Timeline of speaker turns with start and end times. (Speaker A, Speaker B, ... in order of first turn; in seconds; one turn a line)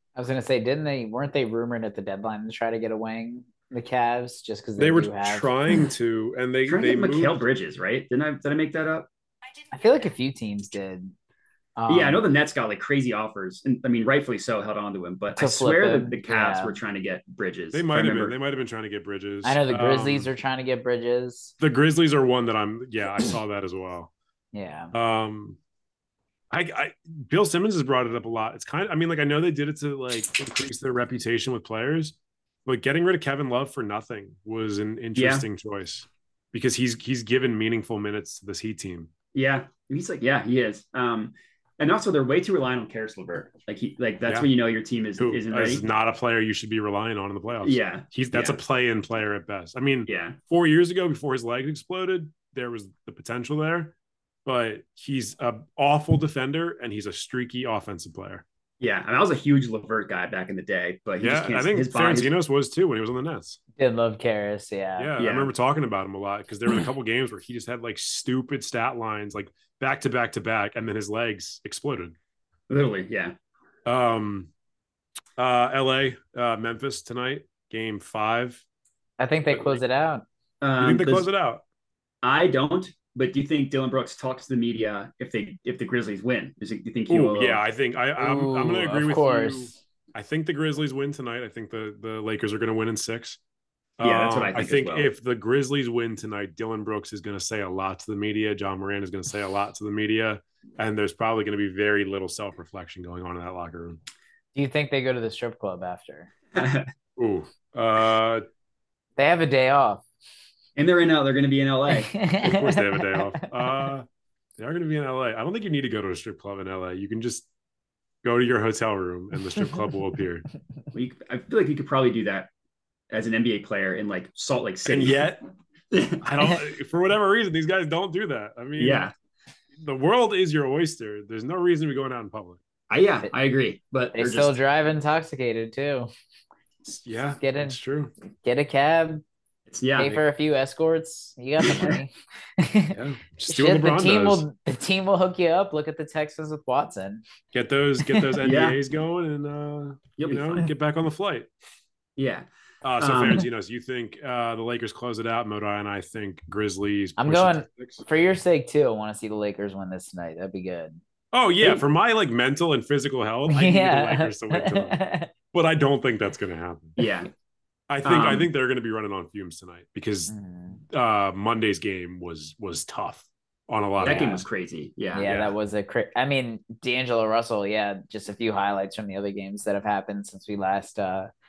Speaker A: 0.1-5.5
Speaker B: 4.8-7.4
Speaker C: 6.7-9.1
Speaker A: 9.7-11.1
Speaker A: 11.8-12.2
Speaker C: 11.9-18.3
Speaker A: 15.4-16.7
Speaker B: 17.7-20.3
Speaker A: 19.4-21.5
Speaker B: 21.6-24.1
Speaker A: 24.5-24.9
Speaker B: 24.9-25.6
Speaker B: 26.5-39.1
Speaker C: 35.1-35.5
Speaker C: 39.3-45.8
Speaker B: 45.2-53.9
Speaker C: 47.6-48.6
Speaker C: 50.1-50.4
Speaker B: 54.5-58.4
Speaker C: 58.8-62.3
Speaker B: 61.2-63.6
Speaker A: 63.8-65.1
Speaker B: 65.0-72.1
Speaker C: 65.2-65.5
Speaker C: 72.7-73.3
Speaker B: 73.8-74.5
Speaker B: 75.4-78.6
Speaker A: 79.2-80.2
Speaker B: 79.5-79.8
Speaker C: 80.6-81.3
Speaker B: 80.8-81.6
Speaker C: 82.2-87.6
Speaker B: 87.1-93.4
Speaker A: 88.2-89.7
Speaker B: 94.0-104.0
Speaker C: 94.0-95.1
Speaker A: 104.5-106.3
Speaker C: 106.5-106.9
Speaker B: 107.2-108.4
Speaker A: 109.2-110.0
Speaker C: 110.8-112.2
Speaker A: 111.9-113.5
Speaker B: 112.4-114.0
Speaker B: 114.6-117.5
Speaker B: 118.2-120.4
Speaker C: 120.9-122.5
Speaker C: 123.1-125.3
Speaker B: 124.8-125.4
Speaker C: 125.9-126.2
Speaker B: 126.2-129.1
Speaker C: 128.8-129.1
Speaker B: 129.8-132.6
Speaker C: 132.9-134.6
Speaker A: 134.1-136.1
Speaker B: 137.0-138.1
Speaker A: 137.4-137.8
Speaker A: 138.4-139.2
Speaker C: 139.7-140.2
Speaker A: 139.9-147.2
Speaker C: 141.6-142.0
Speaker B: 142.9-144.4
Speaker B: 147.5-151.5
Speaker A: 148.0-148.4
Speaker C: 148.4-148.8
Speaker C: 150.2-150.7
Speaker C: 152.2-152.5
Speaker B: 152.8-158.0
Speaker C: 153.0-153.5
Speaker A: 157.2-161.0
Speaker B: 161.3-165.0
Speaker A: 163.5-165.3
Speaker B: 165.5-167.0
Speaker C: 167.0-167.3
Speaker B: 167.9-170.3
Speaker C: 168.0-168.5
Speaker A: 170.3-170.8
Speaker B: 170.9-174.4
Speaker C: 174.0-175.3
Speaker A: 174.1-174.4
Speaker A: 175.1-181.3
Speaker B: 175.2-175.5